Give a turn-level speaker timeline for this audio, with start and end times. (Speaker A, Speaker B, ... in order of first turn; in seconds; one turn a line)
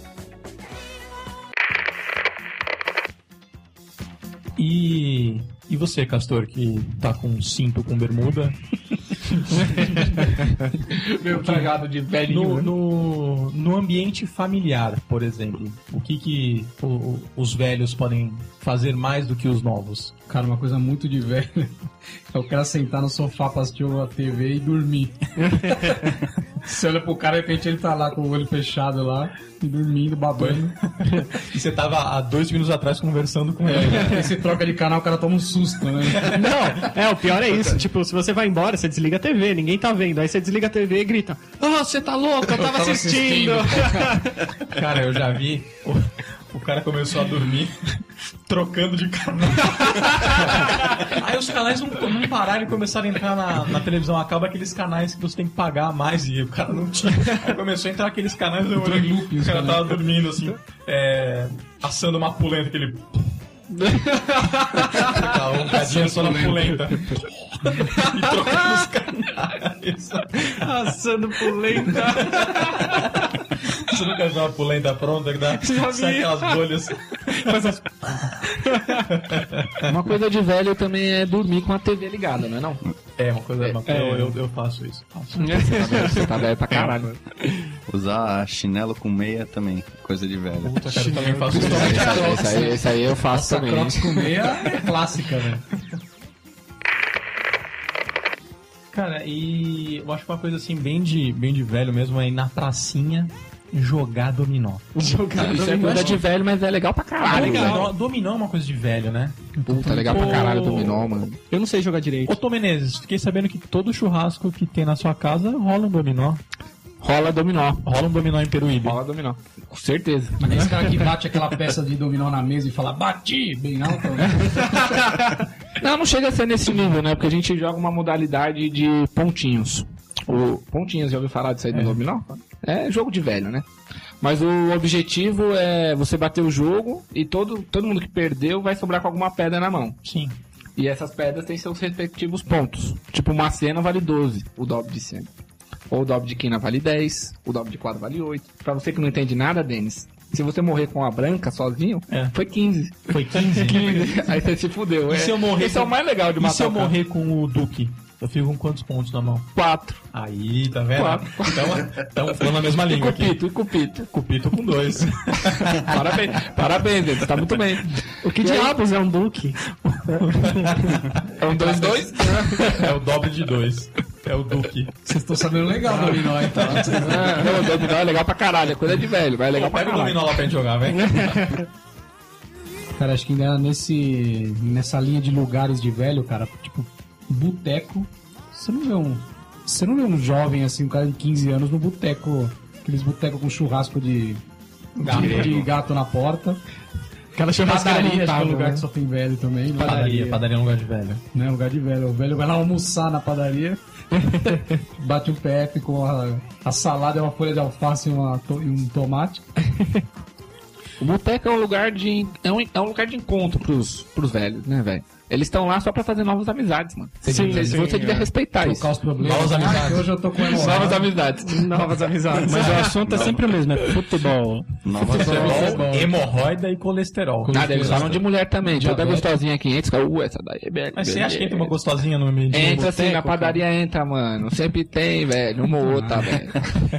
Speaker A: 4.6-8.6
Speaker A: 9.3-10.5
Speaker B: 11.0-12.7
Speaker C: 11.3-11.6
Speaker A: 11.3-11.7
Speaker A: 12.2-20.1
Speaker C: 20.3-21.8
Speaker C: 22.3-26.0
Speaker C: 26.6-30.8
Speaker A: 30.4-34.3
Speaker C: 33.7-36.4
Speaker D: 36.2-44.5
Speaker C: 42.5-44.2
Speaker A: 44.6-47.9
Speaker A: 48.5-63.1
Speaker C: 58.8-60.0
Speaker D: 63.8-65.3
Speaker A: 64.9-70.7
Speaker C: 65.7-66.8
Speaker D: 70.5-73.0
Speaker A: 71.5-77.7
Speaker D: 75.5-76.7
Speaker D: 77.3-79.0
Speaker A: 79.1-79.9
Speaker B: 79.8-82.8
Speaker A: 83.2-86.3
Speaker D: 83.8-84.4
Speaker D: 85.4-87.0
Speaker B: 85.6-87.2
Speaker E: 87.9-90.9
Speaker D: 90.7-92.3
Speaker A: 90.8-92.7
Speaker C: 91.5-95.6
Speaker B: 91.5-94.3
Speaker A: 94.6-95.0
Speaker A: 98.9-104.9
Speaker D: 105.0-106.2
Speaker B: 105.4-107.9
Speaker A: 105.4-106.2
Speaker D: 107.2-107.9
Speaker A: 107.3-111.1
Speaker C: 109.7-110.3
Speaker B: 109.7-111.4
Speaker D: 111.5-112.4
Speaker A: 112.3-116.4
Speaker B: 117.0-117.9
Speaker A: 117.8-119.0
Speaker B: 118.8-121.1
Speaker C: 120.4-124.9
Speaker B: 124.6-133.7
Speaker B: 134.2-140.0
Speaker A: 140.0-140.4
Speaker B: 140.8-145.3
Speaker B: 145.9-157.0
Speaker A: 152.1-152.3
Speaker A: 153.1-154.3
Speaker A: 155.1-159.5
Speaker B: 159.6-160.0
Speaker A: 160.1-163.4
Speaker B: 160.9-161.9
Speaker B: 162.4-164.1
Speaker A: 164.0-166.3
Speaker B: 165.6-168.7
Speaker D: 168.2-170.9
Speaker A: 170.2-171.0
Speaker B: 171.4-172.9
Speaker D: 171.7-172.1
Speaker A: 172.6-174.9
Speaker C: 175.1-177.6
Speaker A: 176.5-176.9
Speaker B: 176.9-180.4
Speaker A: 179.6-181.6
Speaker D: 180.9-181.7
Speaker C: 183.0-194.4
Speaker A: 195.0-195.6
Speaker E: 195.0-195.7
Speaker C: 195.1-196.6
Speaker D: 197.3-198.8
Speaker C: 197.6-200.4
Speaker A: 199.8-201.2
Speaker C: 201.3-203.8
Speaker D: 204.3-204.6
Speaker C: 204.4-209.4
Speaker D: 209.7-210.0
Speaker B: 211.0-218.9
Speaker D: 217.2-218.3
Speaker C: 217.3-217.7
Speaker C: 218.6-221.1
Speaker A: 219.2-220.1
Speaker B: 220.4-222.0
Speaker D: 221.4-223.1
Speaker F: 222.4-224.8
Speaker E: 223.0-223.5
Speaker E: 224.8-225.8
Speaker A: 225.0-228.2
Speaker C: 225.1-226.1
Speaker C: 227.4-229.3
Speaker B: 227.5-231.8
Speaker A: 230.9-233.5
Speaker B: 232.5-236.7
Speaker C: 235.8-236.4